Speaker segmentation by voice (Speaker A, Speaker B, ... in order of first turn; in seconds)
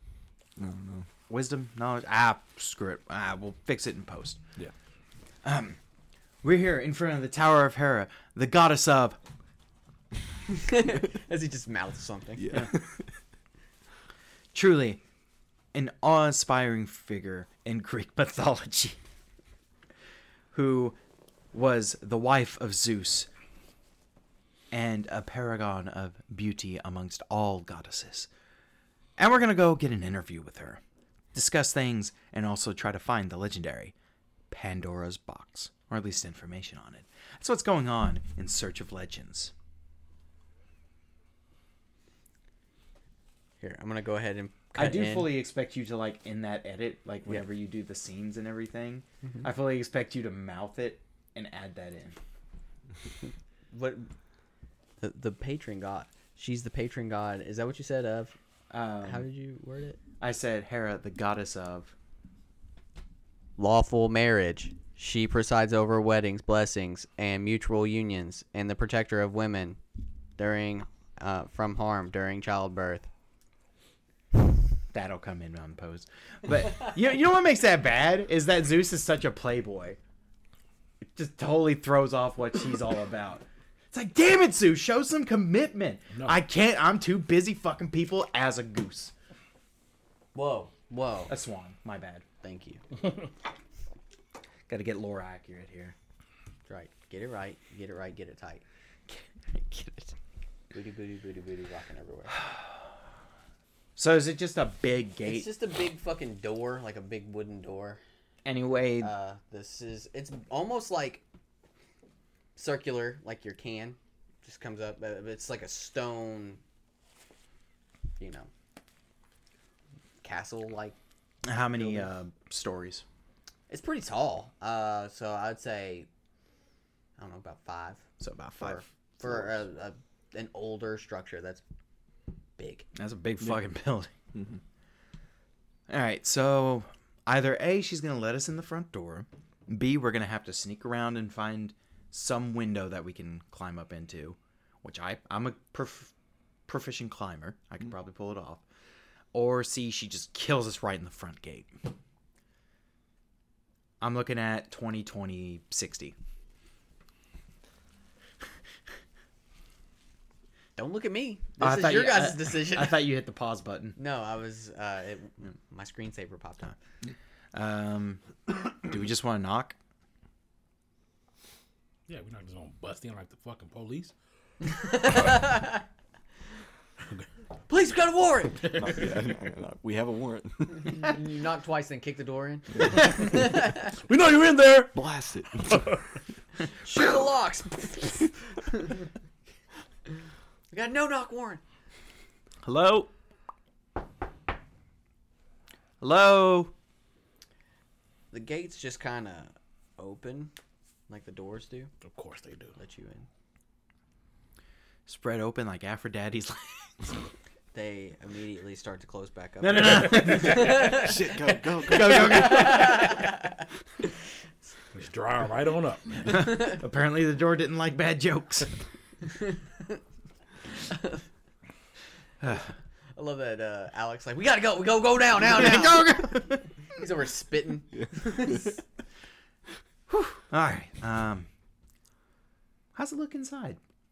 Speaker A: 0.6-1.1, 12.4-13.0, 134.3-134.6, 178.8-180.9, 184.9-185.9, 210.6-212.8, 228.0-228.5
Speaker B: 1.3-4.4, 5.4-5.8, 6.4-9.2, 14.5-15.0, 15.7-19.0, 20.5-21.0, 21.5-23.3, 24.7-28.3, 29.2-30.8, 31.3-33.9, 34.5-39.5, 44.7-52.1, 58.7-59.2, 60.2-61.9, 74.9-80.0, 81.1-89.1, 91.3-92.2, 94.7-95.9, 99.1-100.1, 104.0-105.5, 108.4-109.1, 121.4-123.0, 128.2-128.8, 132.9-134.1, 135.9-146.1, 146.7-148.6, 149.3-151.7, 154.0-156.1, 161.6-164.0, 167.5-169.8, 192.6-193.1, 196.0-196.7, 205.1-207.2, 209.6-211.0, 211.9-213.3, 216.3-218.8, 222.4-222.7, 225.4-226.7, 230.1-231.5, 232.9-233.8
Speaker C: 10.5-12.5, 43.6-45.4, 53.7-54.1, 55.0-58.4, 59.0-60.0, 63.6-69.8, 70.4-73.1, 90.3-91.3, 92.4-92.8, 96.7-98.6, 100.7-102.3, 105.2-108.0, 109.0-111.2, 112.5-116.6, 118.2-118.5, 120.2-121.0, 121.8-122.1, 123.7-126.1, 127.2-131.6, 132.6-132.9, 160.8-163.1, 164.0-166.8, 174.6-175.8, 177.7-178.7, 180.8-183.9, 186.8-189.0, 190.7-191.6, 198.3-200.5, 201.1-201.9, 202.8-203.3, 207.7-213.6, 219.3-220.0, 220.8-221.2, 223.1-226.4, 226.9-228.8
Speaker D: 172.1-174.1, 178.5-179.2, 183.3-184.9, 185.6-186.0, 202.0-202.8, 214.9-216.7